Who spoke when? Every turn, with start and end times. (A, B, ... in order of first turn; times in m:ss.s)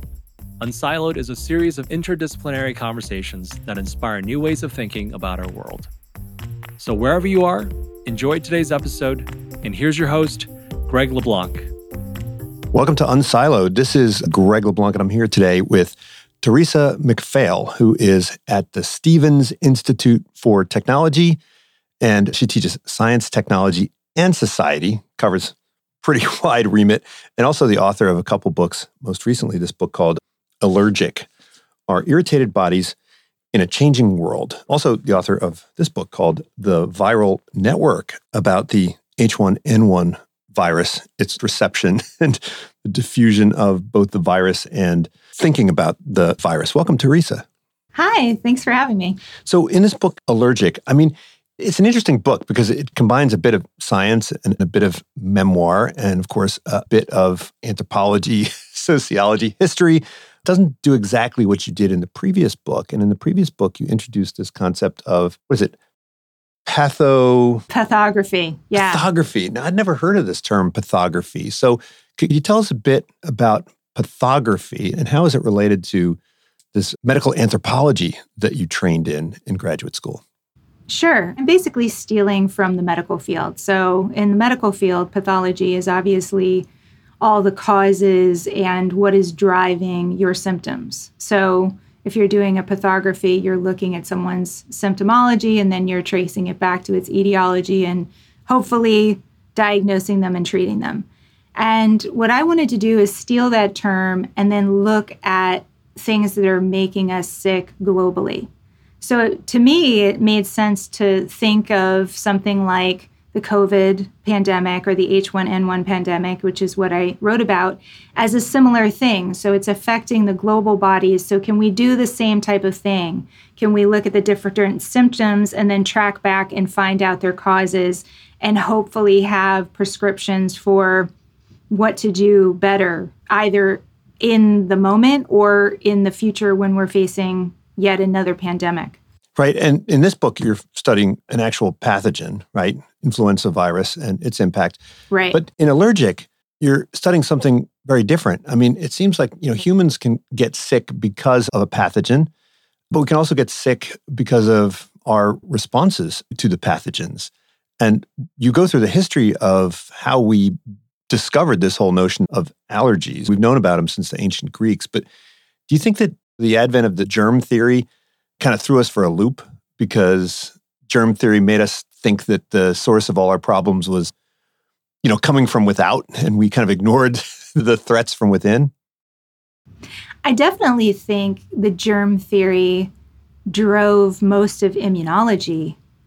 0:00.6-0:05.9 A
0:06.8-0:11.7 A
0:12.7-0:21.4 B
0:22.0-0:31.3 B
0:31.9-0:32.9 B
0:33.5-0:47.4 B
0:47.9-0:49.2 C
0:49.4-1:05.7 B
1:06.6-1:07.6 B
1:07.7-1:09.0 C
1:08.7-1:16.2 B
1:16.7-1:20.2 B
1:20.9-1:26.7 C
1:27.2-1:41.0 C
1:41.6-1:48.5 C
1:49.0-2:11.1 C
2:11.7-2:19.0 C
2:19.4-2:24.8 B
2:25.1-2:25.4 C
2:25.3-2:32.3 B
2:32.9-2:40.6 B
2:41.1-2:45.0 B
2:45.7-2:47.9 B
2:48.4-2:54.1 B
2:55.0-2:58.7 B
3:00.2-3:02.9 C
3:03.5-3:05.8 C